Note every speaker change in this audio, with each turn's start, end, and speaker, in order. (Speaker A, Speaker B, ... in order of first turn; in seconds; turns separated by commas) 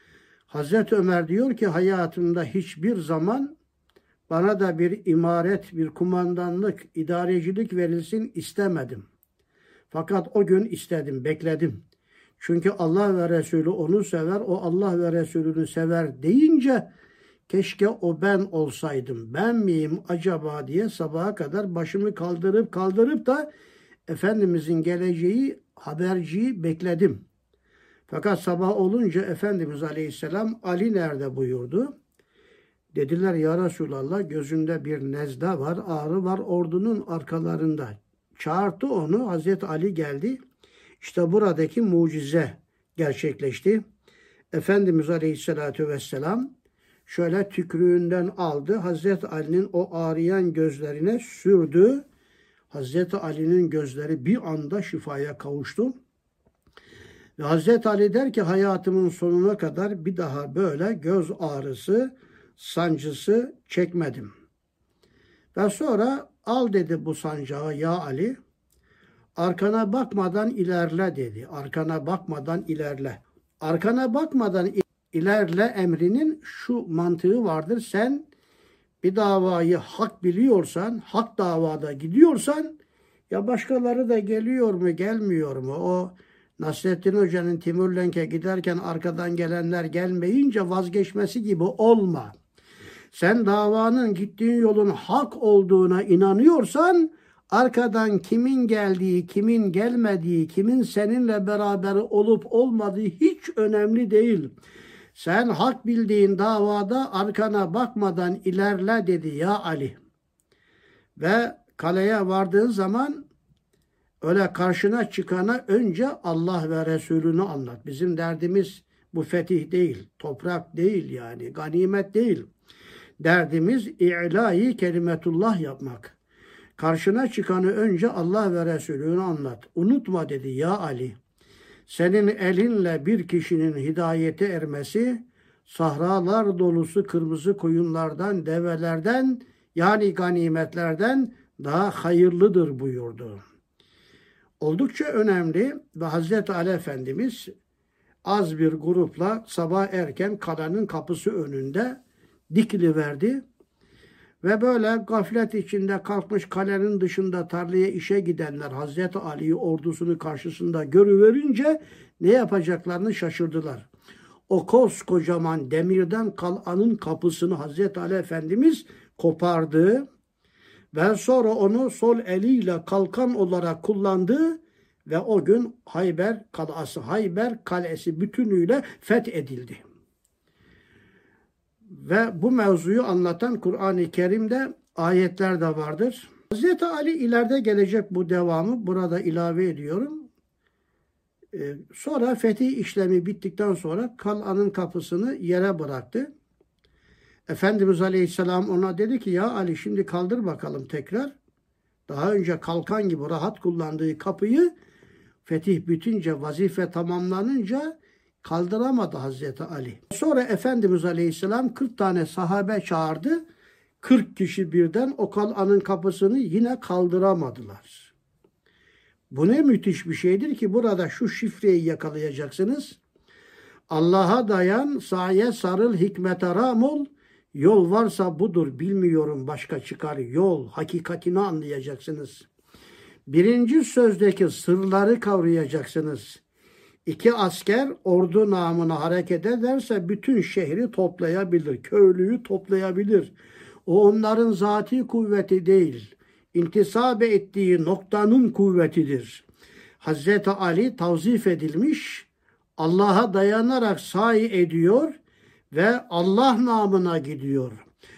Speaker A: 0.5-3.5, Speaker A: 4.3-9.1, Speaker A: 9.9-11.8, Speaker A: 12.4-16.9, Speaker A: 17.5-23.5, Speaker A: 24.1-27.2, Speaker A: 28.1-31.9, Speaker A: 32.9-40.4, Speaker A: 41.0-43.8, Speaker A: 44.5-46.5, Speaker A: 47.1-52.0, Speaker A: 52.7-55.9, Speaker A: 57.4-64.3, Speaker A: 65.5-68.4, Speaker A: 69.4-78.3, Speaker A: 79.0-82.8, Speaker A: 83.3-92.4, Speaker A: 93.1-104.5, Speaker A: 105.2-110.0, Speaker A: 111.2-113.2, Speaker A: 114.2-122.5, Speaker A: 123.2-126.2, Speaker A: 126.8-131.2, Speaker A: 131.9-143.4, Speaker A: 144.6-147.5, Speaker A: 148.2-153.4, Speaker A: 154.4-163.9, Speaker A: 164.5-170.1, Speaker A: 170.9-179.8, Speaker A: 181.9-190.3, Speaker A: 191.5-196.3, Speaker A: 197.5-201.3, Speaker A: 202.1-204.7, Speaker A: 205.4-213.4, Speaker A: 214.0-218.1, Speaker A: 219.3-223.0, Speaker A: 223.9-232.5, Speaker A: 233.3-236.4, Speaker A: 237.1-243.3, Speaker A: 243.9-249.4, Speaker A: 250.0-255.1, Speaker A: 255.7-257.8